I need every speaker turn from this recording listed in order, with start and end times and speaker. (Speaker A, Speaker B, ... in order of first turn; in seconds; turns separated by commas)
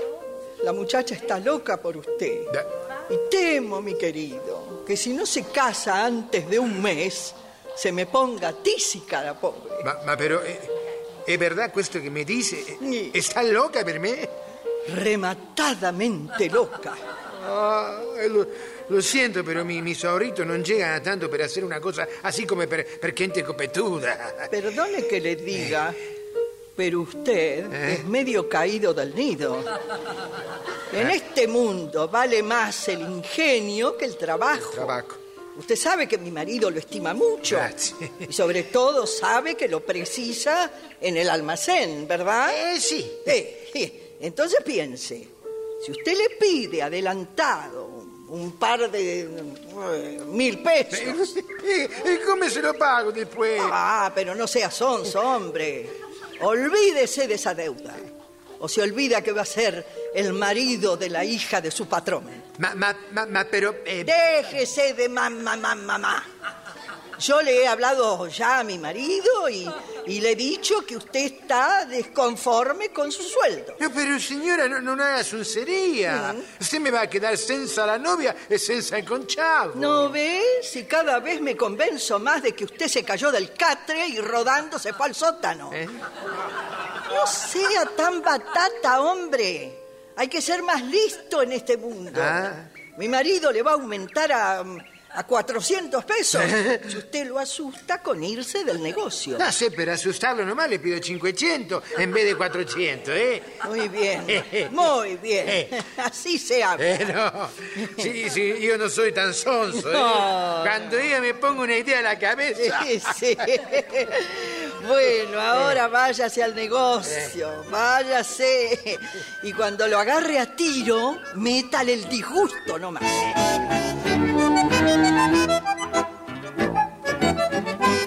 Speaker A: 0.6-9.8, Speaker B: 9.8-10.7, Speaker B: 11.2-14.3, Speaker A: 12.8-13.1, Speaker A: 14.8-17.0, Speaker B: 17.4-24.5, Speaker A: 24.5-26.0, Speaker A: 26.8-29.7, Speaker B: 27.7-28.0, Speaker A: 30.9-35.0, Speaker B: 34.6-35.2, Speaker A: 35.5-37.7, Speaker B: 37.5-38.2, Speaker A: 38.2-42.6, Speaker B: 42.5-43.3, Speaker A: 43.2-51.3, Speaker B: 50.9-53.8, Speaker A: 53.6-62.5, Speaker B: 62.6-64.1, Speaker A: 64.0-66.3, Speaker A: 67.2-73.8, Speaker B: 73.8-79.8, Speaker A: 76.1-76.5, Speaker A: 79.7-85.8, Speaker A: 87.0-99.5, Speaker B: 92.1-92.6, Speaker B: 96.4-96.8, Speaker B: 99.4-103.6, Speaker A: 103.6-107.0, Speaker B: 104.3-104.7, Speaker B: 105.5-105.7, Speaker B: 106.8-113.1, Speaker A: 109.8-110.8, Speaker A: 112.6-123.3